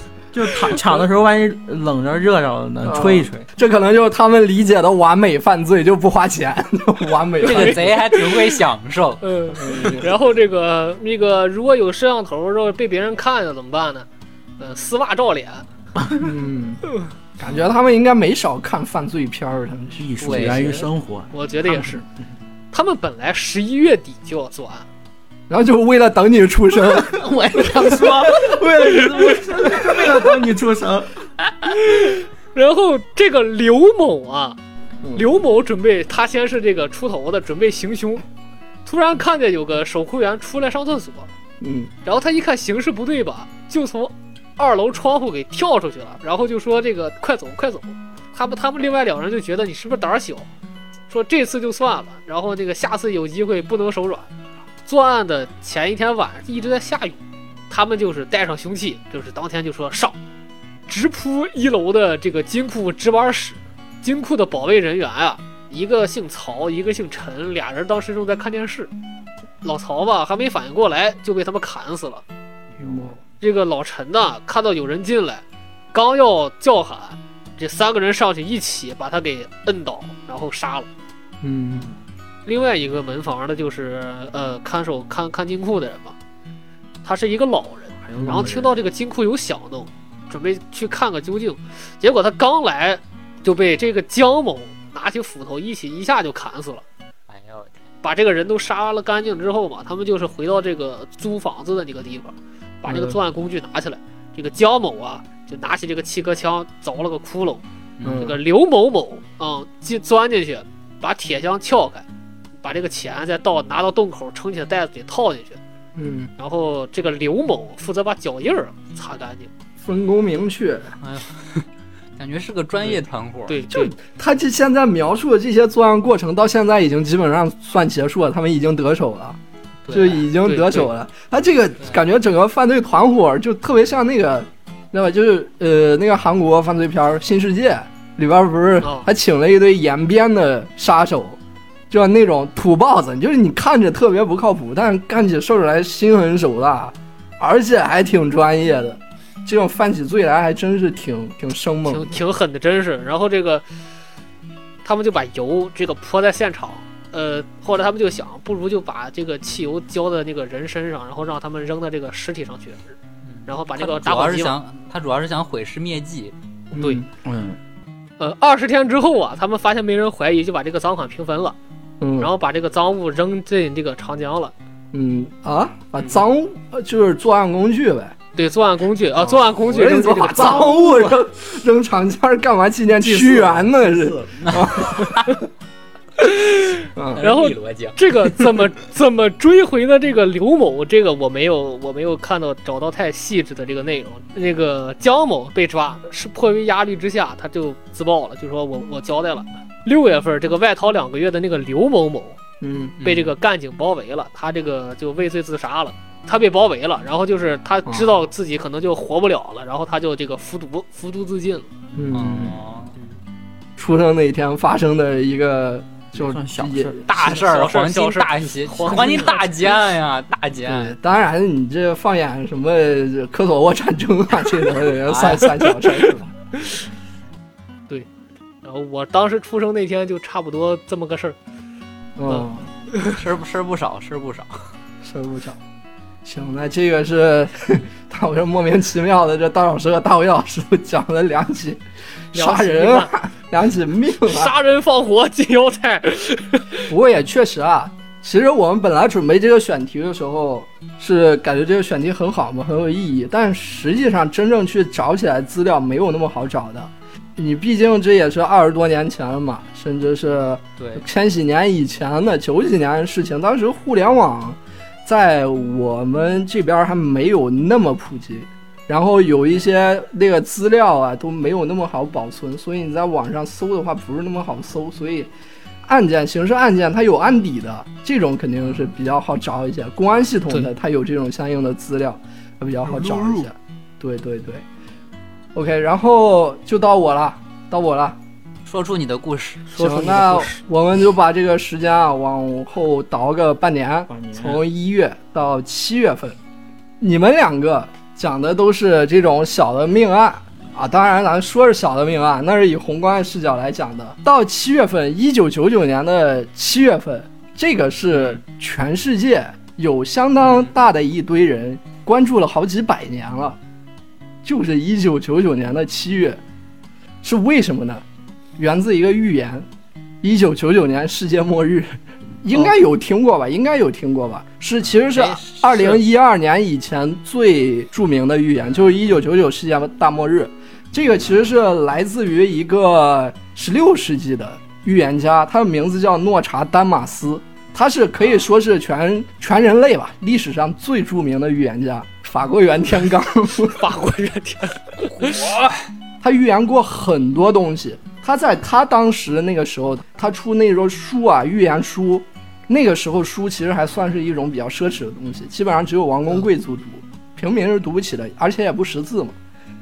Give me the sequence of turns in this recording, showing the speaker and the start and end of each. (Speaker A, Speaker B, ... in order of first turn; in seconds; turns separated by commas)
Speaker A: 0.3-3.4, Speaker B: 2.8-7.9, Speaker C: 7.4-8.6, Speaker D: 7.4-9.2, Speaker C: 9.2-14.1, Speaker B: 9.5-10.1, Speaker C: 14.6-15.7, Speaker B: 16.2-20.7, Speaker A: 20.0-21.3, Speaker D: 20.2-20.9, Speaker C: 21.3-22.0, Speaker C: 22.7-24.9, Speaker B: 25.5-28.8, Speaker A: 26.9-31.1, Speaker C: 31.6-34.6, Speaker C: 35.1-38.2, Speaker C: 38.9-41.3, Speaker B: 41.6-41.9, Speaker C: 42.0-50.5, Speaker C: 51.1-54.3, Speaker C: 54.9-57.2, Speaker C: 57.7-60.1, Speaker C: 60.9-68.9, Speaker C: 69.6-72.2, Speaker A: 72.7-73.1, Speaker B: 72.8-73.2, Speaker C: 73.4-80.9, Speaker B: 81.4-81.9, Speaker C: 82.5-86.1, Speaker C: 87.0-96.8, Speaker A: 88.1-88.7, Speaker B: 88.2-88.5, Speaker D: 97.3-97.7, Speaker C: 98.0-112.0, Speaker B: 102.8-103.2, Speaker D: 108.0-108.3, Speaker B: 108.0-108.4, Speaker C: 112.6-115.6, Speaker B: 116.0-116.3, Speaker C: 116.4-119.5, Speaker B: 119.8-120.9, Speaker D: 121.0-121.6, Speaker D: 122.2-123.6, Speaker C: 123.5-123.9, Speaker B: 123.7-129.4, Speaker D: 129.9-130.2, Speaker B: 129.9-141.4, Speaker C: 130.3-130.9, Speaker C: 138.8-139.1, Speaker B: 141.9-152.2, Speaker C: 151.8-153.6, Speaker C: 154.8-162.9, Speaker D: 163.3-166.3, Speaker C: 163.5-164.5, Speaker B: 166.7-167.1, Speaker C: 166.8-167.0, Speaker A: 167.2-167.6, Speaker C: 168.2-171.5, Speaker B: 172.0-172.3, Speaker C: 172.2-174.5, Speaker B: 174.9-178.1, Speaker C: 178.3-181.1, Speaker B: 179.3-185.3, Speaker A: 183.0-184.4, Speaker D: 184.4-185.3, Speaker C: 186.2-202.4, Speaker B: 186.9-187.2, Speaker D: 187.2-188.1, Speaker B: 202.6-202.9, Speaker D: 203.0-203.3, Speaker C: 203.0-211.7, Speaker B: 207.8-208.1, Speaker B: 211.9-212.6, Speaker D: 212.1-212.9, Speaker B: 213.8-217.4, Speaker A: 216.1-217.0, Speaker D: 217.1-220.9, Speaker C: 217.1-219.7, Speaker B: 220.7-226.3, Speaker D: 225.1-225.4, Speaker C: 228.6-231.4, Speaker B: 232.2-232.7, Speaker D: 233.0-234.5, Speaker B: 235.0-235.6, Speaker B: 236.2-241.8, Speaker B: 242.3-244.5, Speaker C: 242.3-243.1, Speaker C: 244.2-246.9, Speaker B: 246.8-275.3, Speaker D: 260.8-261.0, Speaker B: 275.8-284.6, Speaker A: 282.9-283.4, Speaker B: 285.5-288.2, Speaker D: 288.6-289.7, Speaker B: 289.7-296.4, Speaker C: 289.7-290.6, Speaker A: 294.1-294.6, Speaker B: 297.0-313.6, Speaker B: 314.4-316.4, Speaker B: 317.2-318.0, Speaker B: 318.6-319.6, Speaker B: 320.2-321.9, Speaker B: 322.4-343.8, Speaker D: 325.0-326.0, Speaker C: 343.7-345.6, Speaker B: 346.2-359.4